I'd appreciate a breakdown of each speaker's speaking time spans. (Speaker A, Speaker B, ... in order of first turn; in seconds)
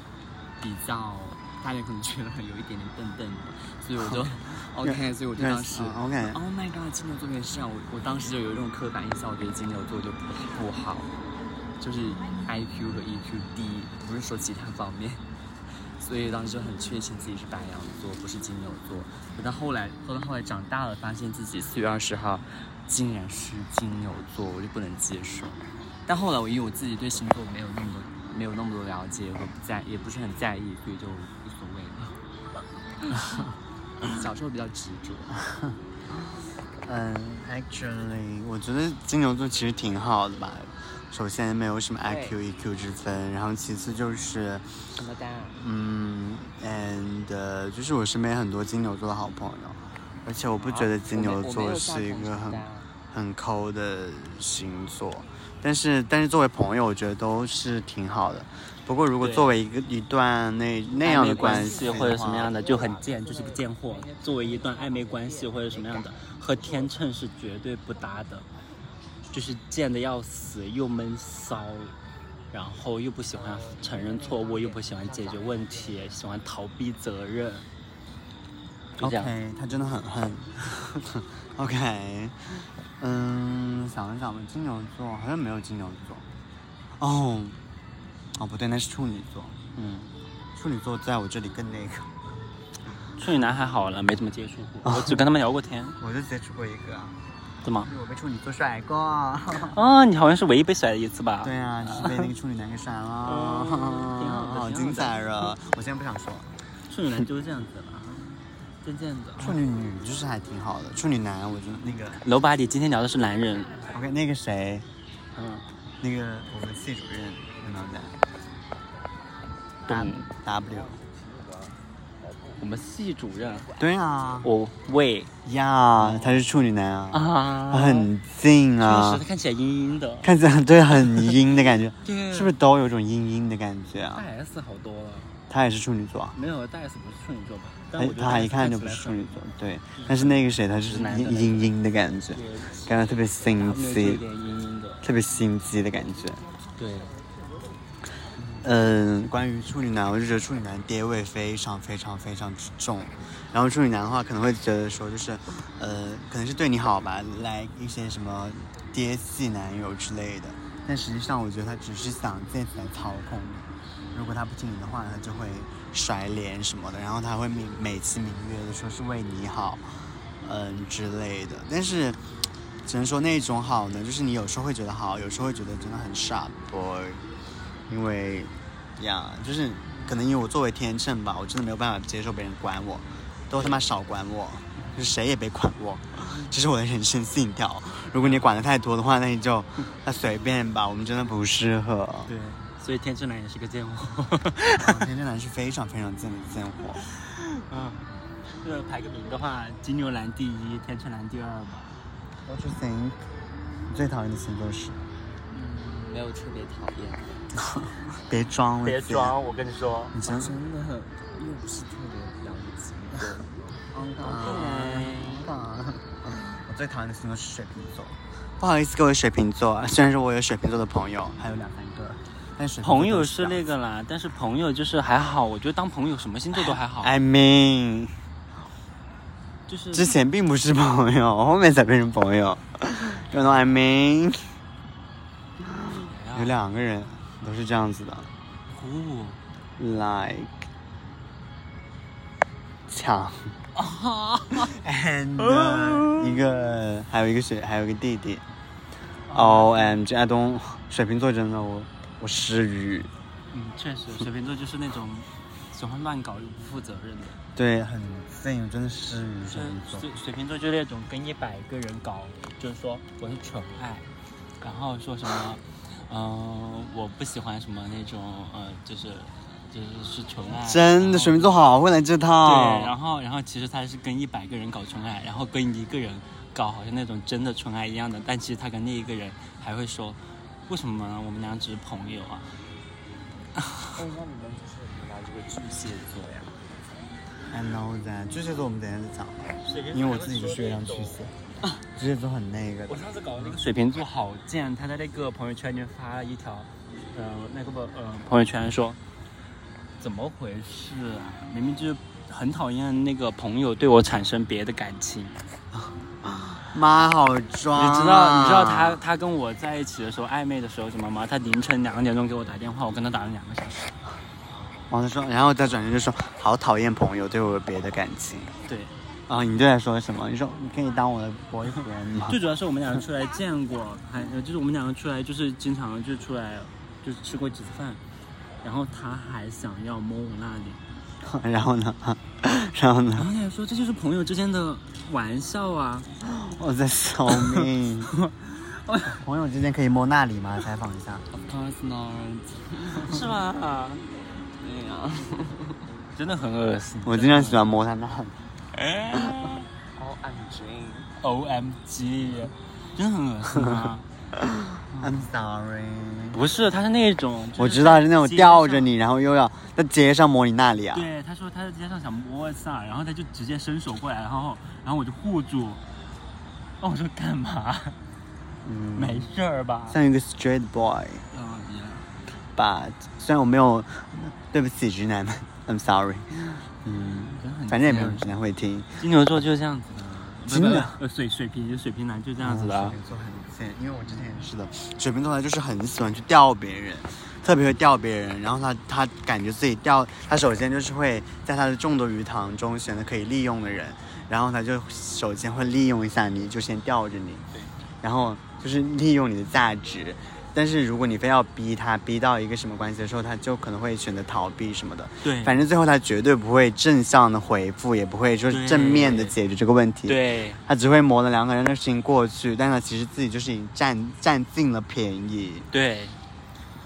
Speaker A: 0.6-11.1, 11.8-15.2, 15.8-32.2, 34.0-35.4, 42.0-42.4, 44.9-45.6, 50.5-52.9, 60.9-66.9, 73.3-76.2, 205.5-207.5, 210.2-215.1, 283.9-286.6, 341.3-343.3, 344.6-345.8, 349.9-351.1
Speaker B: 4.1-6.4, 36.9-44.8, 45.6-62.5, 79.0-86.3, 87.0-87.6, 88.4-89.6, 90.5-92.1, 94.8-95.3, 96.0-97.2, 97.8-99.8, 101.4-106.5, 109.4-112.2, 113.9-114.9, 116.0-118.2, 119.9-121.0, 123.8-124.5, 125.4-129.2, 130.2-134.3, 135.5-136.4, 137.9-144.2, 145.0-146.4, 148.6-172.2, 172.8-177.2, 177.9-192.3, 194.8-197.1, 202.5-203.2, 203.9-205.0, 207.7-209.4, 210.1-210.5, 214.0-223.7, 226.6-228.2, 229.9-234.4, 235.6-238.3, 239.8-240.6, 242.9-243.6, 244.6-248.4, 249.3-253.1, 257.6-260.1, 270.6-272.9, 287.5-291.3, 291.9-293.6, 305.7-309.0, 314.9-318.5, 319.3-322.4, 331.2-333.3, 336.2-338.1, 339.1-341.3, 347.1-348.4, 354.9-356.4, 357.6-361.1, 368.6-369.3, 369.9-371.3, 372.6-379.0, 380.5-381.0, 382.4-397.4, 398.0-415.7
Speaker C: 59.2-59.5, 61.0-68.5, 69.3-72.0, 72.5-77.7, 79.0-79.3, 89.8-90.1, 93.2-96.0, 97.6-97.9, 99.7-102.3, 103.2-105.5, 106.9-109.6, 112.2-113.9, 115.3-115.6, 119.9-120.3, 122.6-123.7, 124.4-125.3, 126.0-126.5, 127.1-128.1, 128.8-130.3, 131.0-131.3, 132.0-132.6, 134.1-135.4, 136.3-139.4, 140.0-141.7, 142.3-145.1, 146.8-147.1, 183.6-183.9, 188.2-188.5, 192.3-195.1, 197.1-202.0, 208.8-210.2, 214.3-215.5, 222.8-227.2, 229.7-230.1, 235.9-236.5, 238.7-239.4, 243.8-244.8, 245.4-246.4, 249.3-250.0, 253.5-257.4, 259.5-264.1, 264.6-271.6, 272.4-282.6, 289.6-291.3, 292.9-299.0, 300.0-305.4, 307.8-313.9, 318.7-318.9, 321.8-328.0, 328.6-330.8, 333.2-336.1, 337.3-339.2, 343.0-344.1, 346.1-347.7, 348.8-349.6, 351.2-354.1, 354.9-355.2, 356.3-358.9, 360.9-365.8, 366.8-368.0, 369.0-370.0, 371.3-372.1, 377.4-378.3, 379.0-383.0, 405.2-405.6, 408.5-409.4, 410.1-410.6, 415.7-416.2